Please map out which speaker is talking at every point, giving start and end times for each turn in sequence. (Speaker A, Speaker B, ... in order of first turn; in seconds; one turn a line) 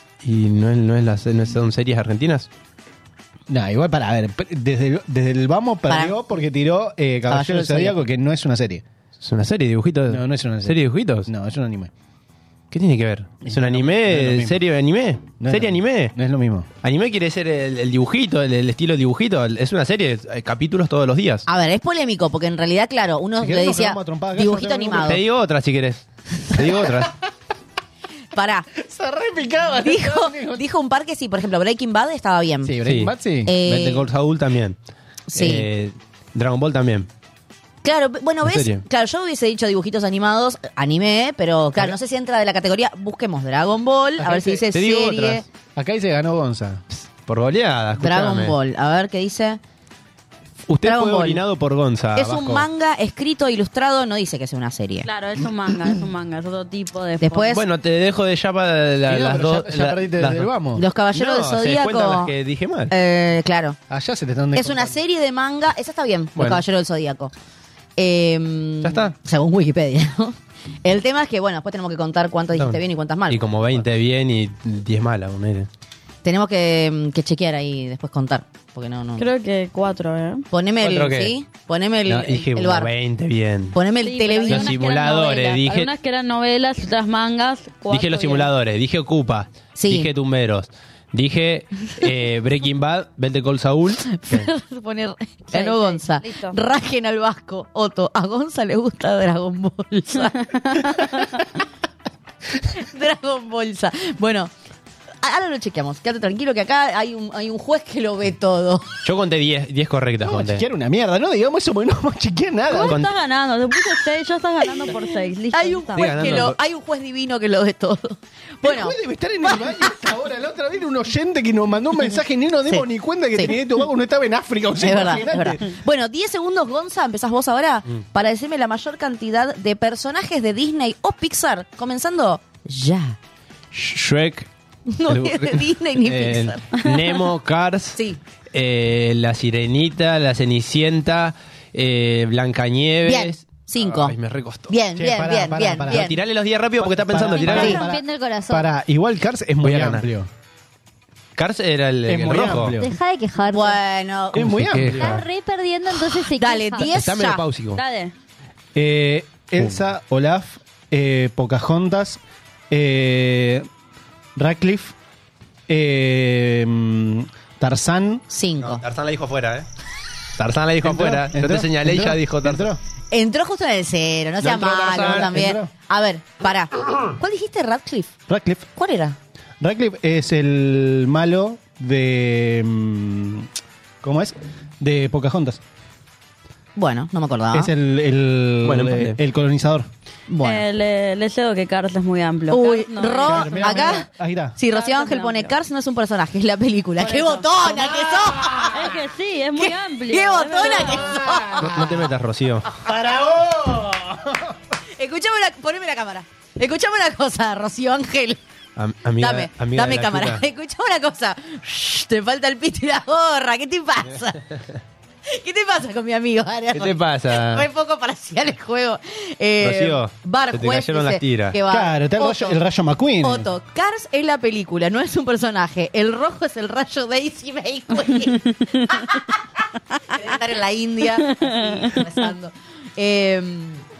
Speaker A: 0.2-2.5
Speaker B: 3.5-8.8
Speaker C: 7.3-8.0
Speaker A: 9.2-11.3
Speaker B: 10.1-11.9
Speaker A: 12.7-16.1
Speaker B: 13.4-14.6
Speaker B: 15.4-16.7
Speaker A: 16.8-21.4
Speaker C: 21.5-25.2
Speaker B: 23.4-25.2
Speaker A: 25.0-27.1
Speaker C: 28.3-28.7
Speaker B: 28.8-30.6
Speaker C: 29.8-32.8
Speaker B: 32.6-33.5
Speaker A: 32.8-34.8
Speaker C: 33.4-34.0
Speaker C: 35.3-35.7
Speaker A: 35.3-37.1
Speaker C: 37.8-45.4
Speaker A: 38.4-38.8
Speaker B: 44.2-44.6
Speaker A: 44.7-45.4
Speaker B: 45.8-46.8
Speaker A: 47.0-48.6
Speaker C: 48.0-49.6
Speaker A: 50.7-52.7
Speaker C: 50.8-51.4
Speaker C: 52.1-55.1
Speaker D: 55.0-57.5
Speaker C: 57.2-57.6
Speaker A: 57.5-60.5
Speaker B: 59.0-60.8
Speaker C: 60.8-62.3
Speaker A: 61.1-62.9
Speaker C: 62.9-63.8
Speaker B: 63.9-65.0
Speaker C: 64.5-67.3
Speaker A: 66.3-66.6
Speaker C: 68.0-73.5
Speaker A: 68.8-69.1
Speaker A: 72.5-75.7
Speaker C: 76.2-79.2
Speaker D: 79.2-80.5
Speaker C: 80.5-82.9
Speaker A: 80.8-81.3
Speaker A: 82.1-83.8
Speaker C: 83.7-84.8
Speaker D: 83.9-88.5
Speaker A: 84.5-85.9
Speaker A: 87.9-94.5
Speaker C: 89.8-90.1
Speaker C: 94.2-101.4
Speaker D: 95.5-96.5
Speaker C: 102.7-104.5
Speaker C: 105.2-108.9
Speaker A: 109.0-110.6
Speaker B: 110.2-113.0
Speaker D: 112.7-116.4
Speaker A: 112.7-113.1
Speaker C: 114.8-119.9
Speaker A: 115.9-116.6
Speaker B: 118.6-125.6
Speaker C: 122.7-123.5
Speaker C: 124.8-133.2
Speaker A: 133.7-134.5
Speaker C: 134.9-136.7
Speaker A: 135.1-138.0
Speaker A: 138.5-144.8
Speaker C: 143.0-144.1
Speaker C: 144.7-146.2
Speaker B: 144.9-146.1
Speaker A: 145.9-147.8
Speaker B: 146.8-150.3
Speaker E: 147.2-148.7
Speaker C: 147.5-147.8
Speaker A: 149.6-150.0
Speaker A: 151.3-152.8
Speaker B: 152.1-152.9
Speaker E: 152.8-153.8
Speaker C: 153.5-155.0
Speaker B: 154.3-155.2
Speaker A: 154.3-155.2
Speaker E: 154.9-156.9
Speaker C: 156.3-157.4
Speaker A: 156.8-157.8
Speaker D: 157.7-158.1
Speaker B: 158.7-163.7
Speaker B: 164.3-164.9
Speaker B: 165.7-168.2
Speaker C: 168.3-168.8
Speaker A: 168.6-169.7
Speaker A: 170.4-172.7
Speaker B: 170.8-172.8
Speaker C: 173.1-178.1
Speaker A: 174.4-175.4
Speaker B: 174.5-175.7
Speaker B: 178.3-178.7
Speaker C: 178.7-179.2
Speaker B: 179.6-183.5
Speaker B: 184.0-185.6
Speaker C: 186.8-187.7
Speaker B: 187.5-189.9
Speaker A: 188.6-189.2
Speaker C: 190.3-190.7
Speaker D: 190.4-194.0
Speaker C: 192.5-194.1
Speaker B: 193.2-194.6
Speaker C: 194.6-198.9
Speaker D: 194.7-195.5
Speaker D: 197.0-197.5
Speaker B: 197.6-198.8
Speaker D: 198.7-201.0
Speaker C: 199.6-202.0
Speaker B: 201.1-201.9
Speaker A: 201.6-202.8
Speaker B: 202.8-204.5
Speaker C: 205.0-208.4
Speaker A: 208.8-210.4
Speaker C: 209.2-214.4
Speaker C: 215.3-222.6
Speaker A: 216.7-217.7
Speaker A: 219.6-221.6
Speaker B: 221.7-223.5
Speaker C: 223.2-229.3
Speaker C: 230.1-233.8
Speaker D: 231.4-231.9